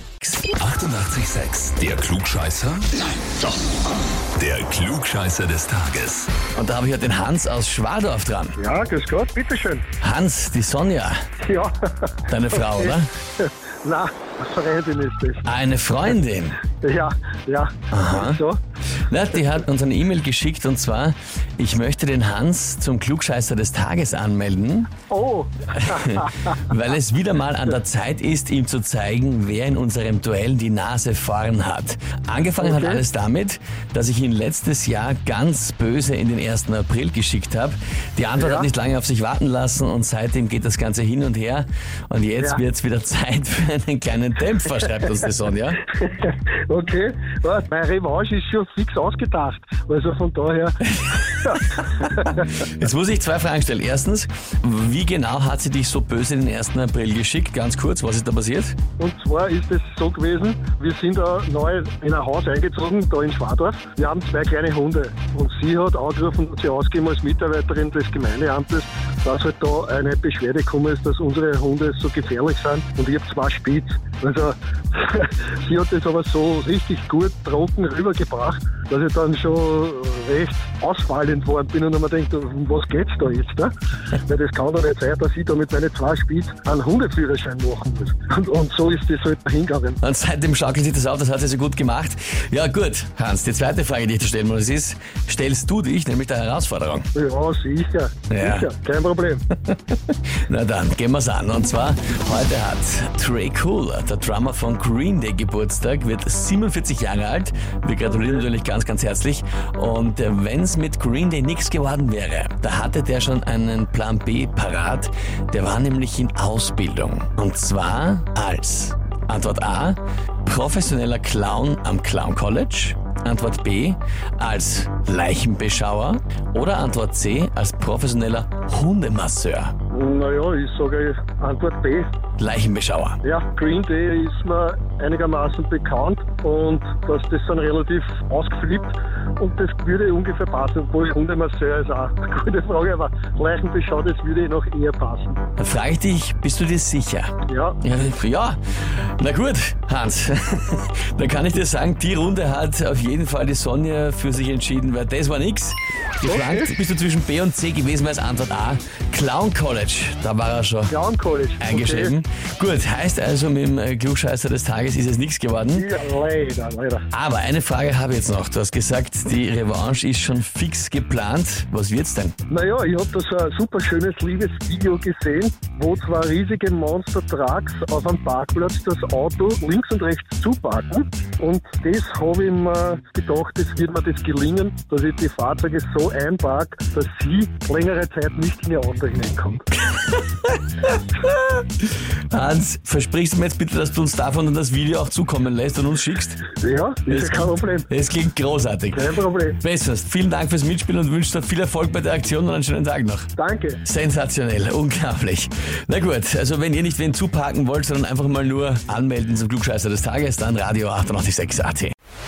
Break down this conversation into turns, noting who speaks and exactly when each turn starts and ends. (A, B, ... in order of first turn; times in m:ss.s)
0:00.5-0:03.0 A
0:04.4-0:06.3 A
0:06.6-0:08.6 B
0:08.6-0:09.9 C
0:10.0-0:11.2 B
0:11.4-0:15.5 C
0:12.3-0:13.1 B
0:15.5-0:16.6 B
0:16.8-0:18.6 C
0:17.9-0:18.4 B
0:19.1-0:24.9 B
0:25.1-0:26.6 C
0:25.7-0:45.8 B
0:32.6-0:33.0 C
0:38.4-0:38.7 C
0:45.9-0:50.8 C
0:51.0-0:58.8 B
0:51.4-0:52.5 C
0:59.0-1:30.0 C
1:30.0-1:37.1 B
1:37.1-1:39.5 C
1:38.3-1:38.7 B
1:39.7-2:09.7 B
1:48.1-1:48.4 C
2:09.9-2:12.1 C
2:12.4-2:13.2 B
2:13.2-2:25.4 C
2:25.6-2:40.9 B
2:27.5-2:27.8 C
2:36.2-2:36.7 C
2:40.9-2:42.2 C
2:41.6-2:45.9 B
2:45.7-2:47.1 C
2:47.1-2:52.4 B
2:52.5-3:09.7 C
3:09.9-3:16.4 B
3:16.5-3:17.9 C
3:17.1-3:19.1 B
3:18.9-3:19.6 C
3:19.6-3:23.3 B
3:23.4-3:23.8 C
3:23.8-3:31.9 B